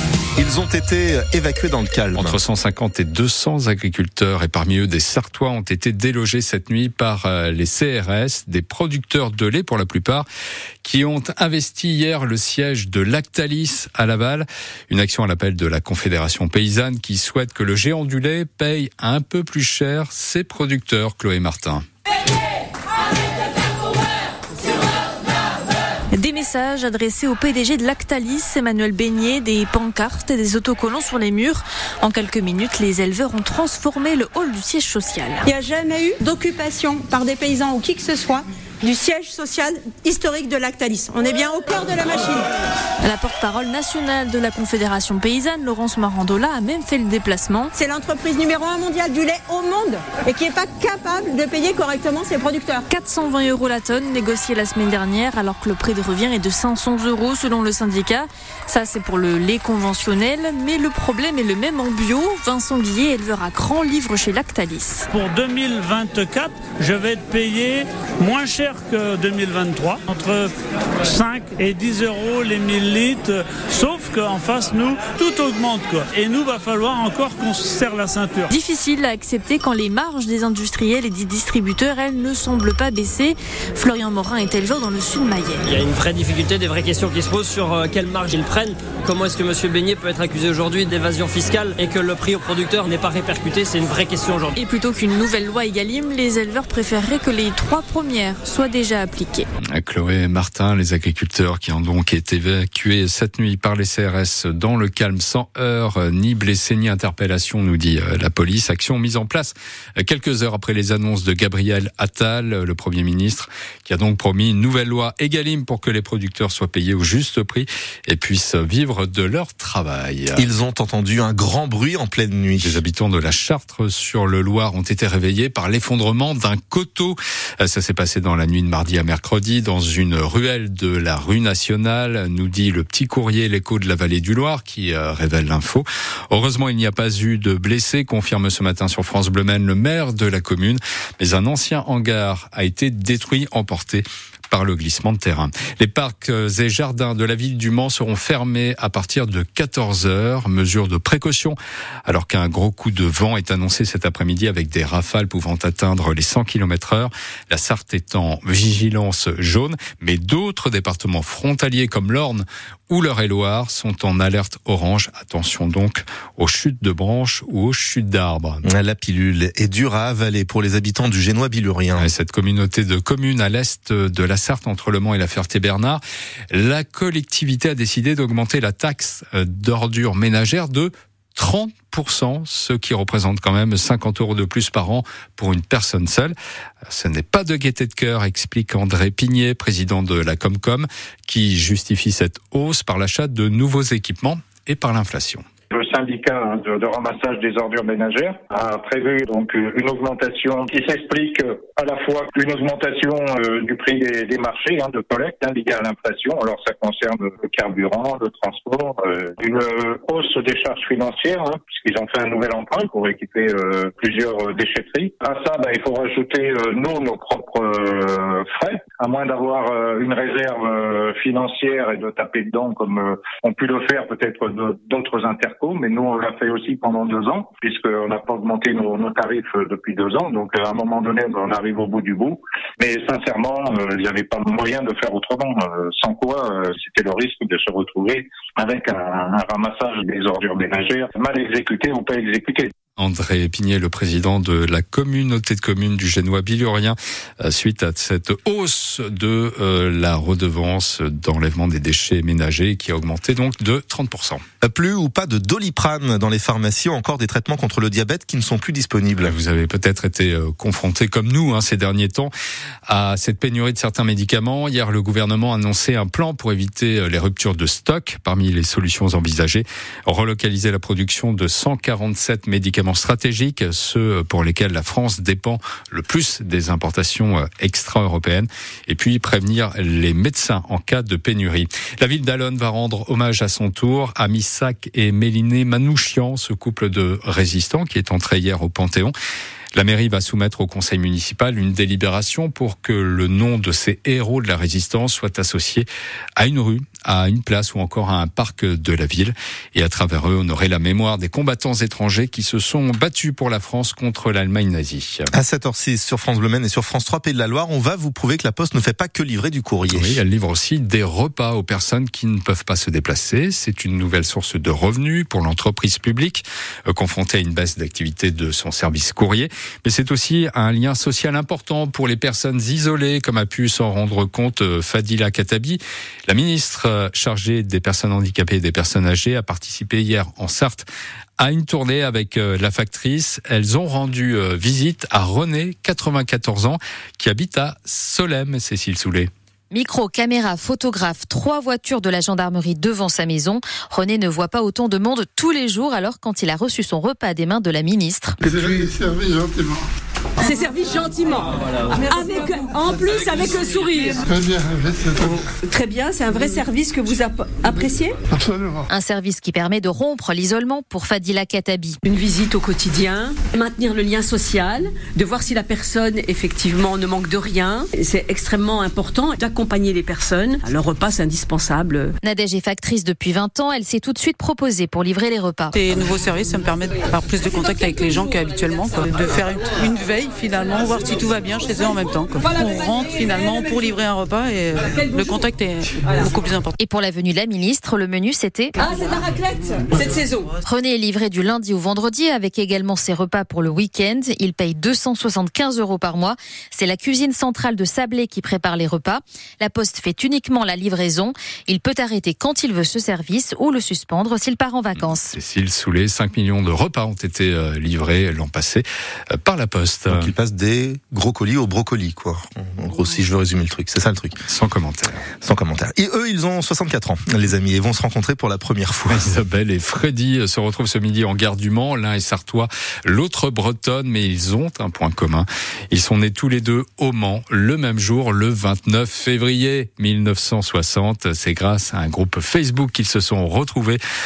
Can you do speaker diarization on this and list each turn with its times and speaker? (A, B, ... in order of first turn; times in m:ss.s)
0:00.4-0:02.4 A
0:02.1-0:10.2 B
0:10.8-0:21.8 B
0:26.1-0:35.4 C
0:35.4-0:42.5 D
0:43.0-0:47.7 C
0:47.7-0:52.9 D
0:52.9-1:05.1 C
1:05.1-1:10.5 E
1:11.0-1:18.5 E
1:18.5-1:25.6 C
1:25.7-1:34.5 F
1:34.6-1:39.4 C
1:39.7-2:00.5 B
2:00.4-2:02.8 A
2:02.6-2:48.6 B
2:48.6-2:52.1 A
2:52.0-2:56.0 B
2:56.5-3:06.3 B
3:06.9-3:15.4 B
3:15.7-4:02.7 G
4:03.0-4:14.4 B
4:14.6-4:19.4 A
4:19.2-4:22.3 B
4:22.8-4:49.1 B
4:49.7-5:05.3 B
5:05.3-5:10.2 A
5:09.9-5:30.9 B
5:31.4-5:39.3 B
5:39.7-5:48.4 H
5:50.5-5:51.5 I
5:51.9-5:54.0 D
5:53.5-5:54.2 I
5:55.3-5:58.0 I
5:58.9-6:02.0 H
6:02.0-6:12.1 I
6:12.2-6:15.7 H
6:15.7-6:26.7 J
6:26.8-6:29.3 H
6:30.6-6:45.4 H
6:45.0-6:50.3 B
6:50.1-6:54.4 A
6:54.4-6:55.2 B
6:55.4-6:59.3 A
6:59.1-7:14.0 B